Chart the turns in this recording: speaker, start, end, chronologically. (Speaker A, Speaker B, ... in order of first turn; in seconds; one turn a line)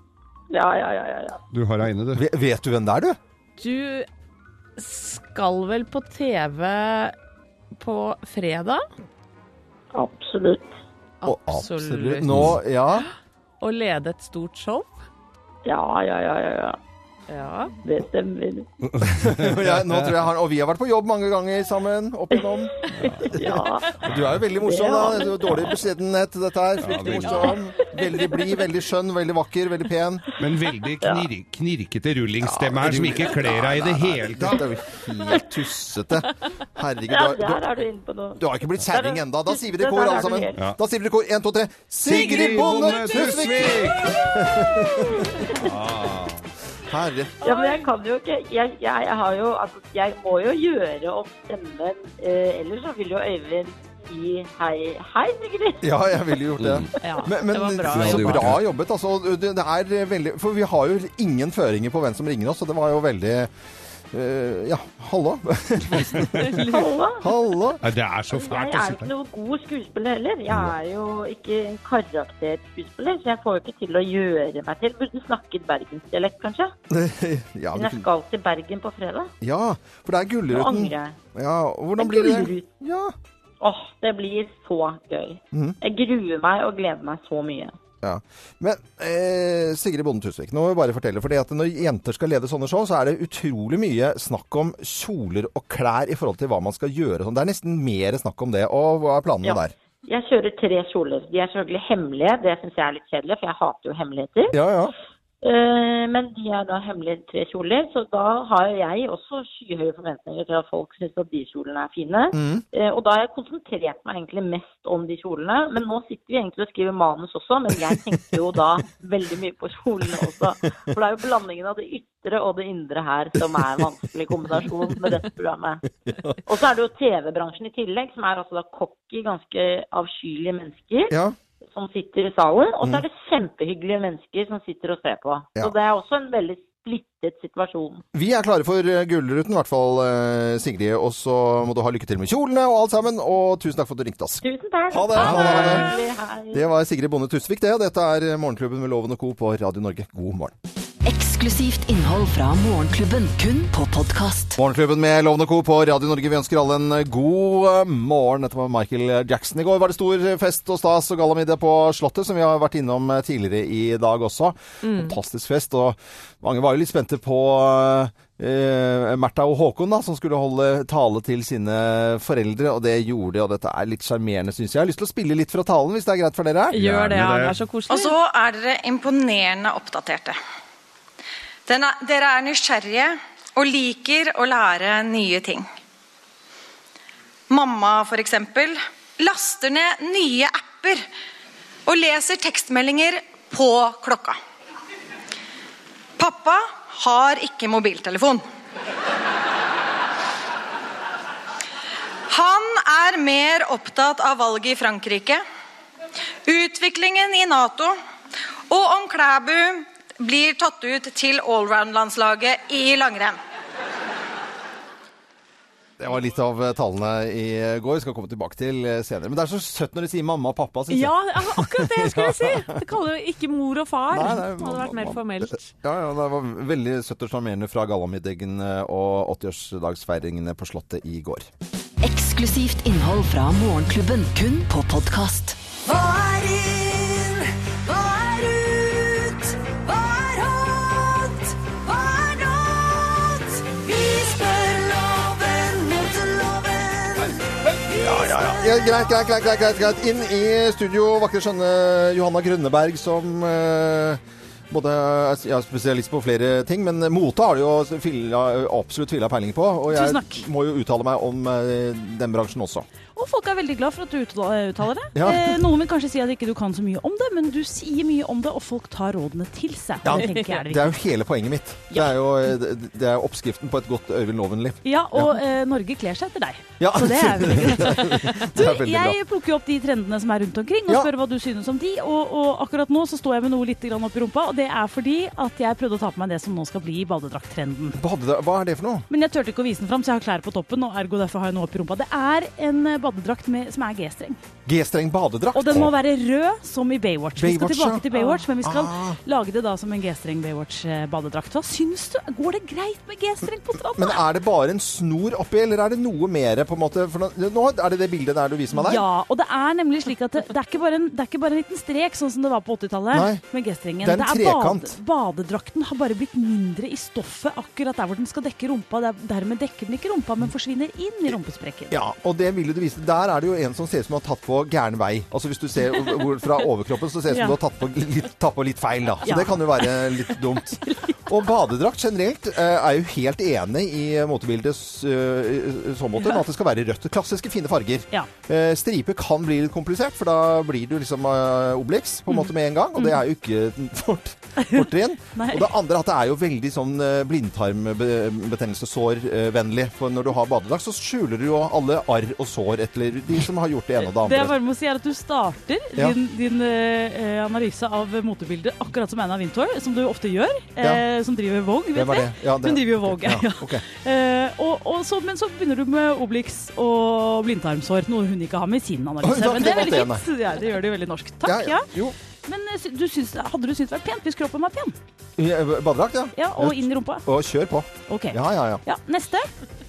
Speaker A: 0.5-1.4
Speaker B: 1.5-2.2
Speaker C: 2.1-3.2
Speaker D: 3.6-4.1
Speaker D: 4.8-7.1
Speaker D: 7.8-8.8
Speaker A: 9.9-10.7
Speaker D: 11.2-12.6
Speaker C: 11.2-13.1
Speaker D: 13.6-14.9
Speaker A: 15.7-16.8
Speaker D: 17.3-17.7
Speaker A: 17.8-18.7
Speaker B: 18.9-20.1
Speaker C: 19.0-22.8
Speaker A: 23.0-23.9
Speaker B: 23.0-23.3
Speaker C: 23.3-30.2
Speaker A: 24.6-25.7
Speaker B: 26.8-27.6
Speaker D: 27.2-27.6
Speaker B: 30.4-34.6
Speaker A: 31.0-31.3
Speaker C: 32.4-37.6
Speaker A: 37.1-40.6
Speaker C: 38.4-45.2
Speaker B: 42.0-44.4
Speaker A: 45.2-45.6
Speaker B: 45.6-46.4
Speaker C: 46.9-47.4
Speaker A: 47.4-55.8
Speaker D: 47.4-47.8
Speaker C: 55.8-63.5
Speaker B: 56.6-56.9
Speaker D: 57.0-58.5
Speaker B: 57.9-58.6
Speaker C: 64.1-66.7
Speaker D: 66.3-66.9
Speaker A: 66.7-67.3
Speaker C: 67.2-67.8
Speaker B: 67.8-69.1
Speaker A: 68.3-76.7
Speaker C: 76.9-78.0
Speaker A: 77.7-79.3
Speaker C: 79.4-83.1
Speaker A: 80.5-81.2
Speaker A: 82.0-82.7
Speaker A: 83.6-87.8
Speaker C: 85.5-85.8
Speaker C: 88.0-99.7
Speaker A: 99.4-104.5
Speaker C: 104.5-104.9
Speaker A: 105.4-125.8
Speaker C: 112.3-112.6
Speaker C: 126.0-126.4
Speaker A: 126.4-131.1
Speaker C: 131.1-131.4
Speaker A: 131.7-138.0
Speaker C: 138.1-145.9
Speaker A: 144.4-146.6
Speaker B: 145.1-145.8
Speaker C: 146.5-150.5
Speaker E: 151.0-154.6
Speaker C: 154.6-176.8
Speaker D: 164.8-165.2
Speaker B: 176.7-177.6
Speaker D: 176.7-178.2
Speaker F: 177.9-180.4
Speaker F: 181.7-185.7
Speaker F: 187.5-191.1
Speaker F: 191.9-194.4
Speaker F: 196.2-198.4
Speaker F: 202.3-205.4
Speaker F: 206.4-207.9
Speaker F: 208.7-213.4
Speaker C: 216.0-222.8
Speaker D: 220.9-225.7
Speaker C: 224.1-231.5
Speaker E: 232.0-235.6
Speaker G: 235.8-247.3
Speaker G: 247.9-248.4
Speaker C: 248.0-262.9
Speaker H: 259.9-260.4
Speaker H: 263.1-270.9
Speaker C: 265.1-265.6
Speaker C: 270.0-275.3
Speaker D: 270.1-270.6
Speaker H: 274.8-288.0
Speaker C: 276.8-279.1
Speaker C: 287.9-289.1
Speaker H: 289.1-294.4
Speaker C: 294.6-295.9
Speaker H: 295.5-304.2
Speaker C: 297.4-299.2
Speaker C: 303.9-309.0
Speaker H: 308.7-321.9
Speaker C: 313.1-313.4
Speaker C: 314.0-314.9
Speaker C: 321.9-354.6
Speaker D: 327.3-327.6
Speaker D: 329.2-329.6
Speaker H: 344.6-345.7
Speaker H: 354.0-371.9
Speaker C: 361.9-363.8
Speaker C: 369.2-370.2
Speaker C: 371.4-372.1
Speaker H: 372.4-374.9
Speaker C: 375.4-378.8
Speaker H: 376.4-377.2
Speaker H: 378.1-379.5